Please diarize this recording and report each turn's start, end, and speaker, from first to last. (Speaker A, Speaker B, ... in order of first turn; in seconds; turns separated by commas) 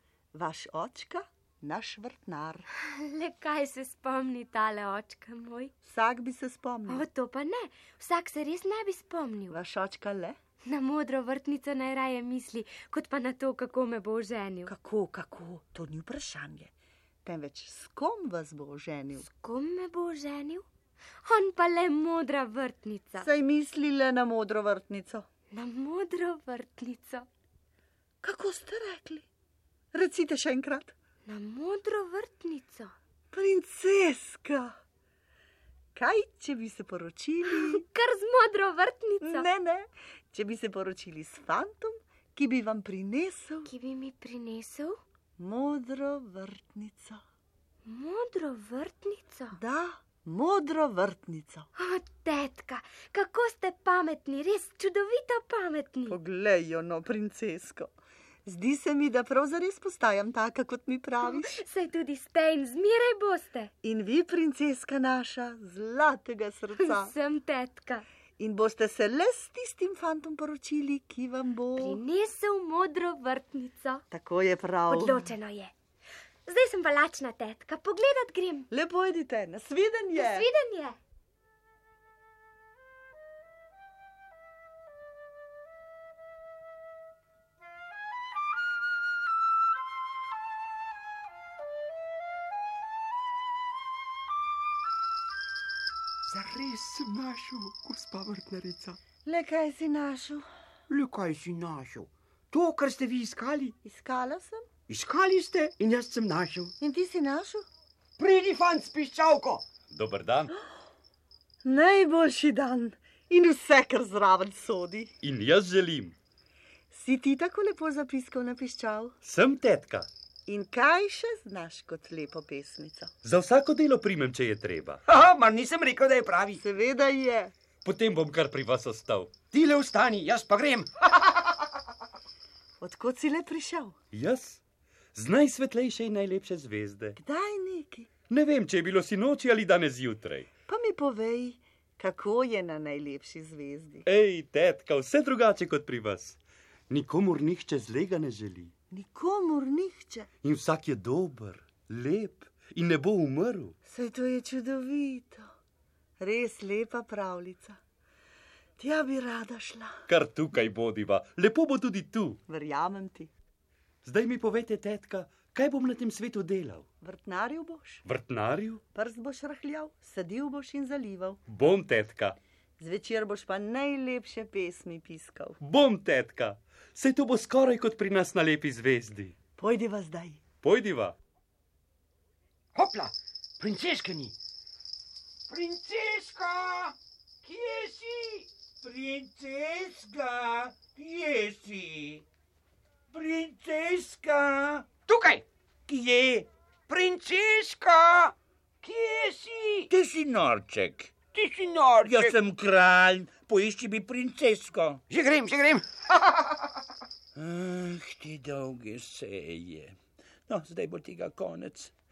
Speaker A: 0.3-2.6, Speaker B: 2.8-5.7, Speaker A: 5.8-7.0, Speaker B: 6.9-9.6, Speaker A: 9.5-10.4, Speaker B: 10.6-14.7, Speaker A: 14.7-16.7, Speaker A: 17.2-19.2, Speaker B: 19.2-20.6, Speaker B: 21.2-23.3, Speaker A: 23.2-25.3, Speaker B: 25.5-27.3, Speaker A: 28.2-29.3, Speaker A: 29.9-30.9, Speaker B: 31.2-32.9, Speaker A: 33.3-34.8, Speaker A: 35.9-37.8, Speaker B: 37.5-39.5, Speaker A: 39.2-43.7, Speaker B: 43.6-45.0, Speaker A: 45.4-47.2, Speaker B: 47.9-49.6, Speaker A: 49.5-51.7, Speaker B: 51.8-56.2, Speaker A: 56.1-57.9, Speaker A: 58.5-61.6, Speaker B: 61.2-63.7, Speaker A: 63.8-67.1, Speaker B: 66.8-68.0, Speaker A: 68.4-72.0, Speaker B: 71.8-74.0, Speaker A: 74.1-75.3, Speaker B: 74.9-75.7, Speaker B: 76.5-78.7, Speaker A: 78.7-80.5, Speaker B: 80.2-81.0, Speaker C: 96.3-99.0, Speaker A: 99.2-100.5, Speaker C: 100.9-103.8, Speaker A: 103.8-104.7, Speaker C: 104.9-106.7, Speaker A: 106.8-107.7, Speaker C: 108.2-109.6, Speaker D: 109.9-110.5, Speaker A: 111.6-115.1, Speaker D: 115.2-116.2, Speaker A: 116.9-119.1, Speaker D: 119.2-120.1, Speaker A: 120.5-123.1, Speaker D: 123.2-125.0, Speaker C: 125.1-126.6, Speaker A: 126.5-127.5, Speaker D: 127.8-129.3, Speaker C: 129.5-130.9, Speaker A: 132.8-133.9, Speaker D: 134.1-134.6, Speaker D: 135.1-137.2, Speaker A: 137.2-138.1, Speaker D: 138.3-140.5, Speaker A: 140.7-144.1, Speaker D: 144.1-146.4, Speaker D: 146.9-148.7, Speaker A: 148.9-150.3, Speaker D: 150.4-153.7, Speaker A: 153.9-155.5, Speaker A: 156.2-157.8, Speaker A: 158.8-160.0, Speaker D: 160.1-162.4, Speaker A: 162.5-163.3, Speaker D: 164.0-166.8, Speaker A: 167.0-168.0, Speaker D: 168.0-168.8, Speaker A: 168.9-171.4, Speaker D: 171.5-172.3, Speaker A: 172.8-175.6, Speaker D: 175.6-179.3, Speaker A: 179.6-180.4, Speaker D: 180.6-181.1, Speaker C: 182.7-184.3, Speaker C: 185.5-188.5, Speaker E: 188.8-192.2, Speaker E: 193.1-194.9, Speaker C: 195.1-195.4, Speaker E: 195.9-196.5, Speaker C: 196.9-199.9, Speaker E: 199.9-201.2, Speaker C: 201.3-202.3, Speaker E: 202.0-205.0, Speaker C: 205.1-206.0, Speaker E: 207.3-211.9